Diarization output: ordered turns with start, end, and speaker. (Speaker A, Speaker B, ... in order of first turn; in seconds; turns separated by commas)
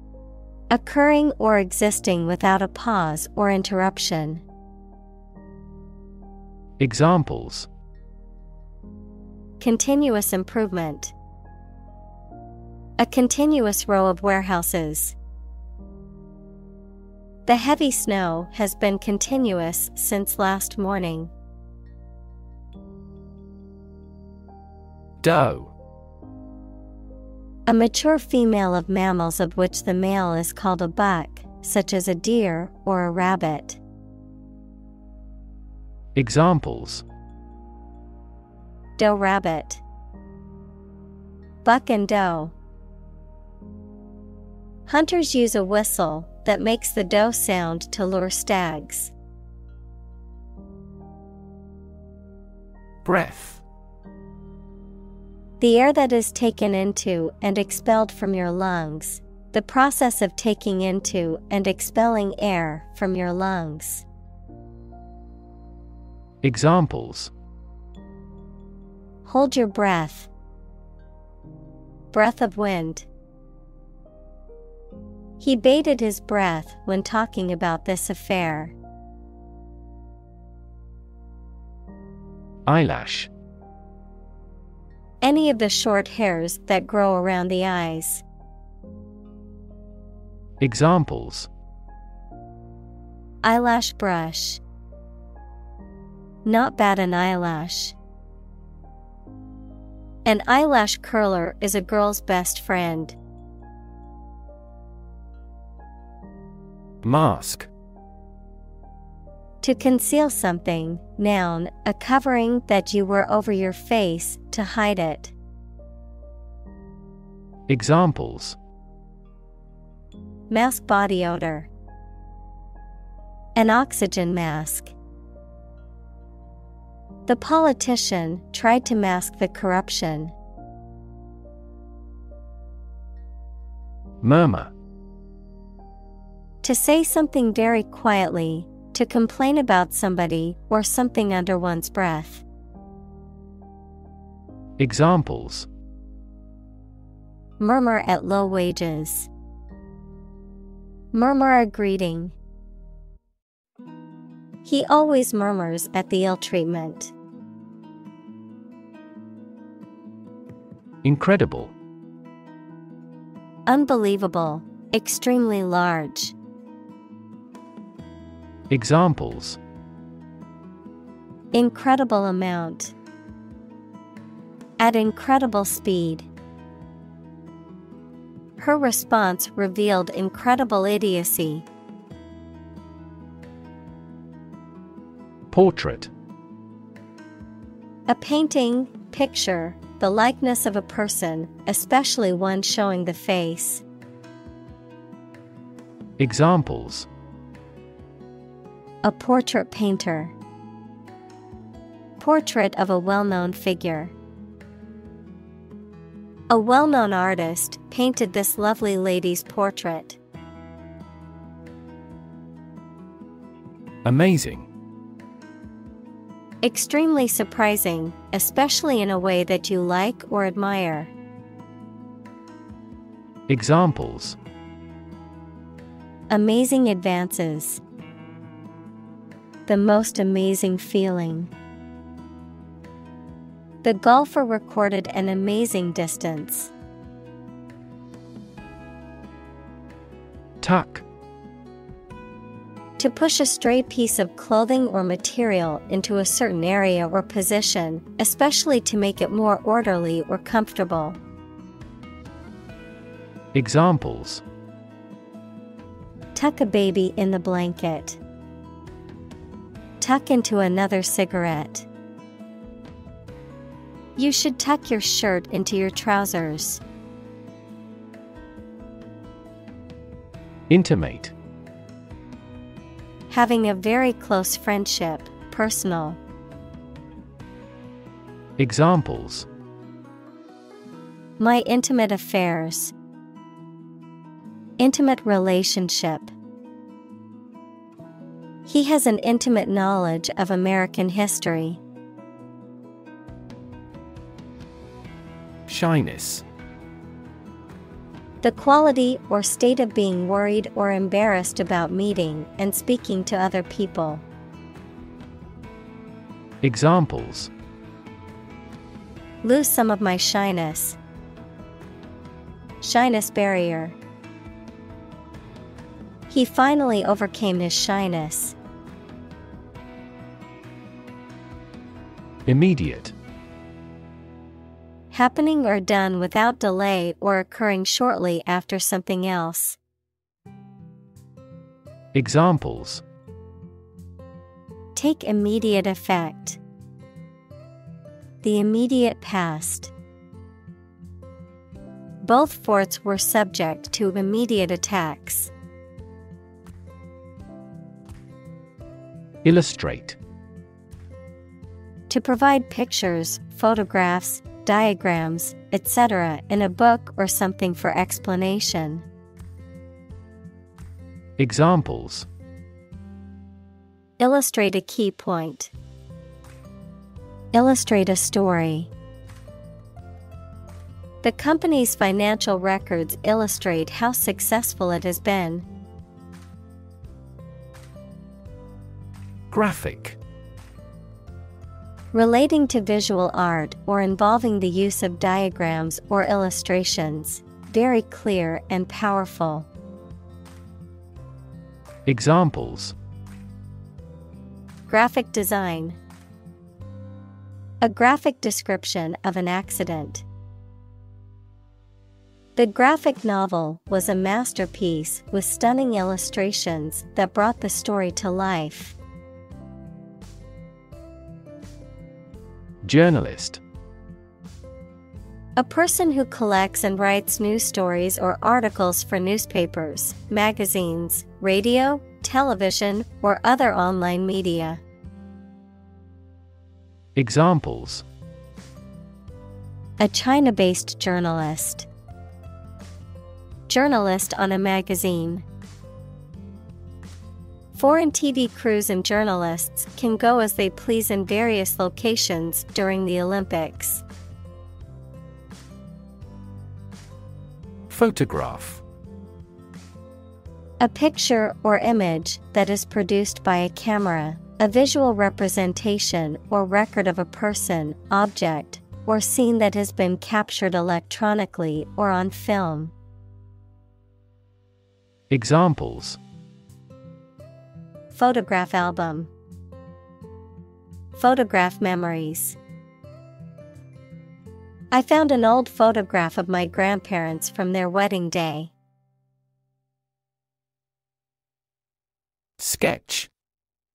Speaker A: 0.7-4.4, Speaker B: 6.8-7.7, Speaker A: 9.6-11.1, Speaker A: 13.0-15.2, Speaker A: 17.5-21.3, Speaker B: 25.2-25.7, Speaker A: 27.7-33.8, Speaker B: 36.1-37.0, Speaker A: 39.0-39.8, Speaker A: 41.6-42.5, Speaker A: 44.9-49.1, Speaker B: 53.0-53.6, Speaker A: 55.6-64.1, Speaker B: 66.4-67.3, Speaker A: 69.2-70.3, Speaker A: 72.1-73.1, Speaker A: 75.4-78.8, Speaker B: 82.7-83.3, Speaker A: 85.2-88.2, Speaker B: 90.6-91.5, Speaker A: 93.4-94.6, Speaker A: 96.5-98.0, Speaker A: 100.2-103.2, Speaker B: 107.0-107.7, Speaker A: 109.6-115.3, Speaker B: 117.7-118.6, Speaker A: 120.5-121.7, Speaker A: 123.5-125.0, Speaker A: 127.3-130.3, Speaker B: 134.2-134.7, Speaker A: 136.6-142.4, Speaker B: 144.8-145.7, Speaker A: 147.6-149.3, Speaker A: 151.1-152.4, Speaker A: 154.6-157.1, Speaker B: 161.0-161.7, Speaker A: 163.7-166.3, Speaker B: 168.7-169.6, Speaker A: 171.5-172.9, Speaker A: 174.8-176.3, Speaker A: 178.6-181.7, Speaker B: 185.5-186.1, Speaker A: 188.1-193.8, Speaker B: 196.2-197.1, Speaker A: 199.0-200.3, Speaker A: 202.2-204.1, Speaker A: 206.5-210.2, Speaker B: 214.1-214.7, Speaker A: 216.6-221.1, Speaker B: 223.5-224.4, Speaker A: 226.3-227.8, Speaker A: 229.7-231.5, Speaker A: 233.8-236.7, Speaker B: 240.6-241.0, Speaker A: 243.0-251.2, Speaker B: 253.5-254.4, Speaker A: 256.4-258.2, Speaker A: 260.0-261.9, Speaker A: 264.2-266.8, Speaker B: 270.7-271.3, Speaker A: 273.3-276.2, Speaker B: 278.6-279.5, Speaker A: 281.4-282.9, Speaker A: 284.8-286.3, Speaker A: 288.7-291.8, Speaker B: 295.7-296.4, Speaker A: 298.4-304.2, Speaker B: 306.6-307.5, Speaker A: 309.4-311.0, Speaker A: 312.8-314.0, Speaker A: 316.3-318.6, Speaker B: 322.5-323.1, Speaker A: 325.1-329.8, Speaker B: 332.1-333.0, Speaker A: 334.9-336.6, Speaker A: 338.4-339.9, Speaker A: 342.2-345.5, Speaker B: 349.4-350.2, Speaker A: 352.1-359.1, Speaker B: 361.4-362.3, Speaker A: 364.2-365.7, Speaker A: 367.5-368.9, Speaker A: 371.2-375.7, Speaker B: 379.5-380.2, Speaker A: 382.1-389.7, Speaker B: 392.1-392.9, Speaker A: 394.9-396.0, Speaker A: 397.8-400.2, Speaker A: 402.6-409.0, Speaker B: 412.8-413.6, Speaker A: 415.6-424.8, Speaker B: 427.1-428.1, Speaker A: 430.0-431.9, Speaker A: 433.7-435.4, Speaker A: 437.8-444.0, Speaker B: 447.9-448.8, Speaker A: 450.8-462.9, Speaker B: 465.3-466.2, Speaker A: 468.1-469.3, Speaker A: 471.1-472.6, Speaker A: 474.9-478.7, Speaker B: 482.6-483.3